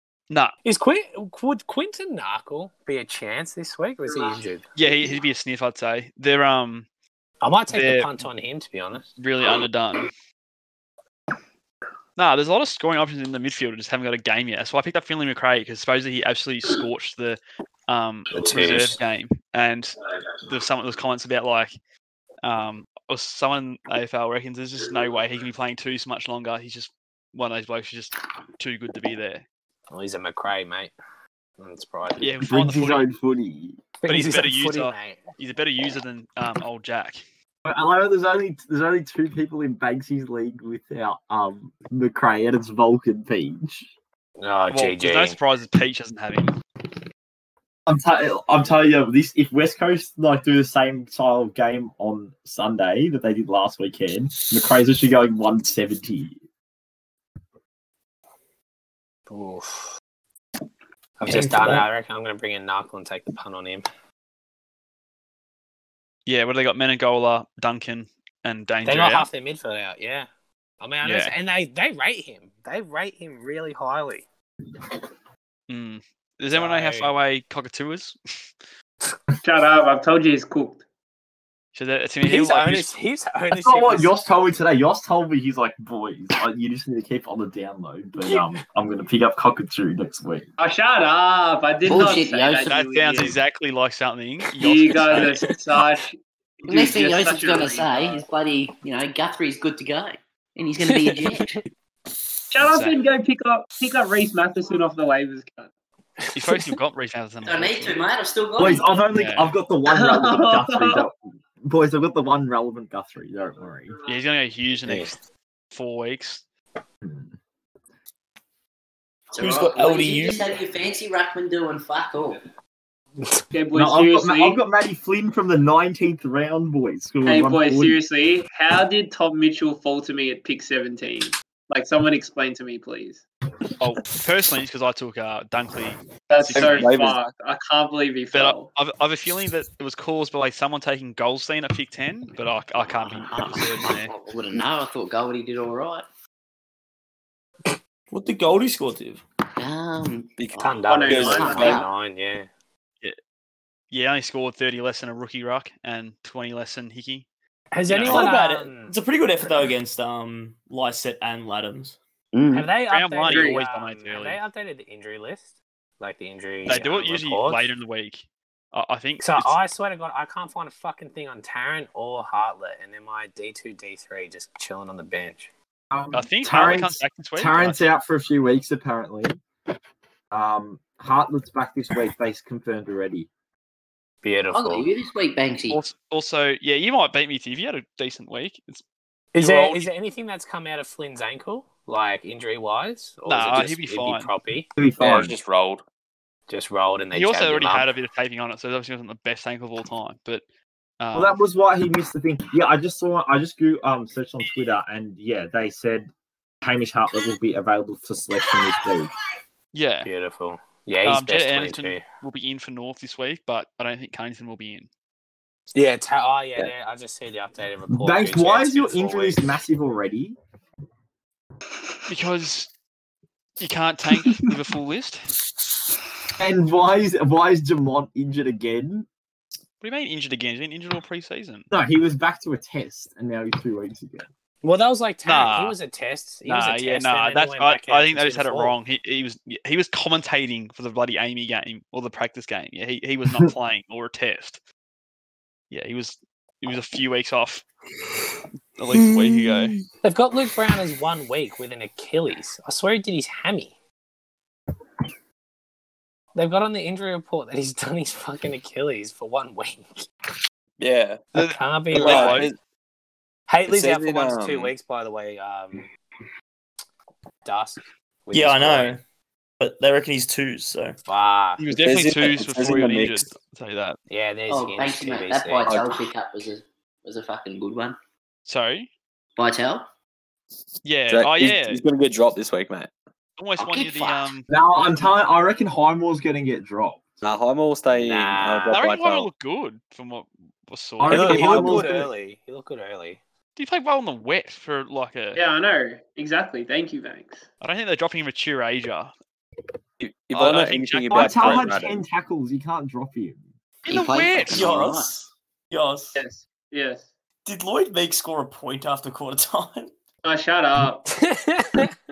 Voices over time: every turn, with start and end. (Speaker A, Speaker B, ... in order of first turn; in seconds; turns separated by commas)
Speaker A: 0.3-0.6, Speaker B: 0.7-4.7, Speaker A: 4.8-6.9, Speaker B: 7.4-9.1, Speaker A: 7.7-8.1, Speaker A: 9.2-10.1, Speaker A: 12.2-21.8, Speaker B: 18.3-19.0, Speaker A: 22.4-29.4, Speaker B: 29.9-30.9, Speaker B: 31.6-32.5, Speaker A: 32.2-33.1, Speaker C: 32.4-33.8, Speaker B: 34.0-35.2, Speaker A: 34.1-37.2, Speaker C: 37.6-43.9, Speaker B: 44.4-45.4, Speaker A: 44.7-46.5, Speaker C: 47.9-56.4, Speaker B: 59.3-59.9, Speaker B: 61.2-63.9, Speaker D: 61.3-61.9, Speaker A: 66.3-69.3, Speaker B: 68.8-70.3, Speaker B: 70.8-74.3, Speaker A: 71.0-71.3, Speaker A: 75.7-78.2, Speaker B: 76.5-77.1, Speaker E: 79.4-80.8, Speaker A: 81.7-82.9, Speaker B: 82.3-84.2, Speaker C: 83.5-90.5, Speaker E: 90.6-93.4, Speaker F: 91.8-92.8, Speaker A: 92.7-95.6, Speaker E: 94.6-98.2, Speaker F: 96.7-101.6, Speaker B: 100.9-101.6, Speaker E: 102.5-105.7, Speaker A: 102.6-103.0, Speaker B: 106.2-106.8, Speaker A: 106.3-108.0, Speaker F: 107.5-109.0, Speaker C: 108.6-113.9, Speaker A: 109.1-109.5, Speaker E: 109.9-111.0, Speaker A: 114.1-115.2, Speaker B: 114.9-115.2, Speaker A: 115.7-116.4, Speaker C: 117.0-117.3, Speaker F: 119.3-122.4, Speaker D: 119.4-120.5, Speaker E: 123.5-124.6, Speaker C: 123.7-128.0, Speaker E: 127.2-133.2, Speaker A: 133.8-136.9, Speaker E: 136.3-138.7, Speaker G: 136.5-137.2, Speaker A: 138.3-144.1, Speaker F: 142.9-146.1, Speaker D: 148.1-149.2, Speaker F: 149.6-151.9, Speaker G: 150.4-151.8, Speaker B: 150.6-152.5, Speaker E: 150.9-151.7, Speaker A: 153.9-157.3, Speaker B: 157.7-159.0, Speaker A: 157.9-158.3, Speaker D: 158.0-162.0, Speaker F: 162.3-162.7, Speaker B: 162.5-167.7, Speaker A: 162.9-164.4, Speaker E: 163.3-163.6, Speaker A: 166.7-169.6, Speaker B: 169.2-175.5, Speaker C: 175.9-179.4, Speaker A: 176.1-177.8, Speaker C: 180.3-183.3, Speaker B: 184.2-184.9, Speaker F: 184.5-185.8, Speaker A: 185.7-188.8, Speaker B: 189.3-194.7, Speaker A: 189.4-189.9, Speaker A: 193.3-194.3, Speaker C: 194.8-195.3, Speaker G: 195.0-195.8, Speaker B: 196.5-197.9, Speaker A: 197.1-200.4, Speaker A: 201.0-201.4, Speaker C: 201.1-206.1, Speaker C: 206.6-209.1, Speaker A: 209.7-210.1, Speaker B: 210.0-212.0, Speaker A: 211.0-214.9, Speaker B: 215.8-219.4, Speaker C: 217.9-220.4, Speaker A: 222.1-222.7, Speaker A: 223.6-225.3, Speaker C: 226.4-229.1, Speaker A: 229.8-231.7, Speaker C: 231.7-234.3, Speaker B: 234.6-238.8, Speaker A: 235.3-235.8, Speaker A: 236.4-244.6, Speaker A: 245.7-247.6, Speaker A: 248.8-249.8, Speaker D: 248.9-249.8, Speaker B: 250.0-253.8, Speaker B: 256.4-260.1, Speaker G: 260.8-261.3, Speaker B: 261.3-262.4, Speaker A: 261.4-262.5, Speaker G: 261.9-262.6, Speaker B: 263.5-265.9, Speaker G: 263.7-264.7, Speaker B: 267.4-269.0, Speaker D: 268.3-269.0, Speaker D: 269.6-271.0, Speaker B: 271.1-271.6, Speaker A: 271.6-274.0, Speaker G: 271.7-273.3, Speaker B: 274.1-275.6, Speaker F: 274.5-278.0, Speaker G: 275.6-276.1, Speaker A: 278.5-278.9, Speaker F: 279.4-279.9, Speaker A: 280.8-281.8, Speaker G: 281.1-282.9, Speaker A: 283.4-284.5, Speaker F: 283.6-284.3, Speaker C: 284.5-287.2, Speaker G: 287.2-289.3, Speaker B: 287.9-288.9, Speaker A: 288.7-291.5, Speaker C: 291.0-292.1, Speaker B: 291.1-293.2, Speaker G: 291.1-291.9, Speaker A: 293.6-295.4, Speaker E: 295.4-297.5, Speaker A: 297.6-299.1, Speaker G: 300.0-302.0, Speaker A: 300.3-301.7, Speaker C: 301.1-303.4, Speaker A: 303.9-304.7, Speaker F: 303.9-305.1, Speaker D: 304.4-306.2, Speaker E: 306.1-307.1, Speaker D: 307.4-309.9, Speaker E: 310.2-311.1, Speaker B: 311.1-311.9